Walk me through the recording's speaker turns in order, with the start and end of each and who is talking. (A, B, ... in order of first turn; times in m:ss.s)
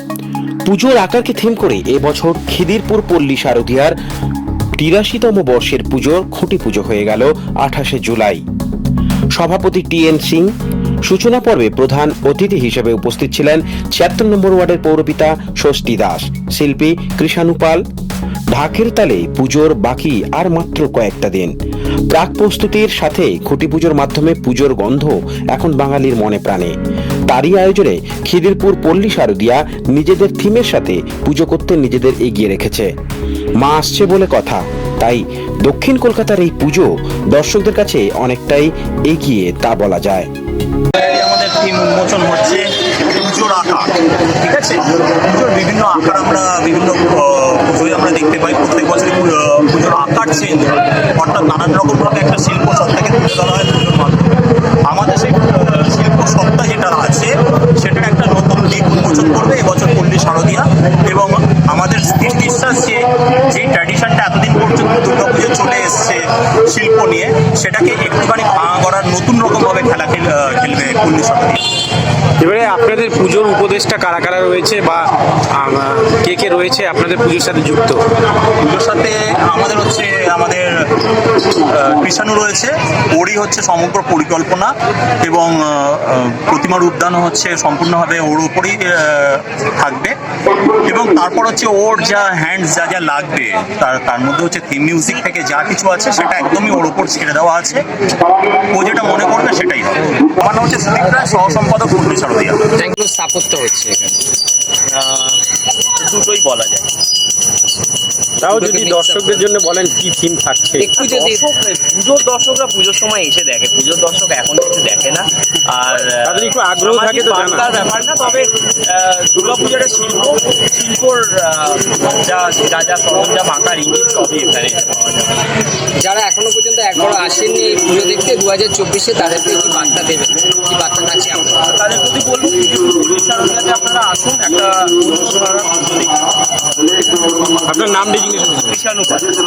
0:00.6-0:04.0 A
0:04.8-0:08.4 A
0:09.3-0:10.5 A
0:11.0-0:17.8 A
0:18.5-0:21.5 A
0:22.1-0:26.7 A
0:27.3-0:32.9 A
0:33.6-0:40.3 A
0:41.0-0:54.3 B
0:54.8-1:11.6 B
1:12.4-1:18.0 C
1:18.6-1:20.7 B
1:21.6-1:30.2 B
1:30.8-1:37.8 B
1:38.7-1:42.6 B
1:42.8-1:44.2 D
1:44.9-1:45.4 E
1:46.0-1:46.9 E
1:48.4-1:51.0 C
1:48.5-1:49.5 D
1:50.8-1:51.4 D
1:50.9-2:05.4 E
1:56.2-1:57.6 C
2:06.0-2:11.6 D
2:11.7-2:16.2 E
2:17.6-2:18.7 C
2:18.4-2:19.3 E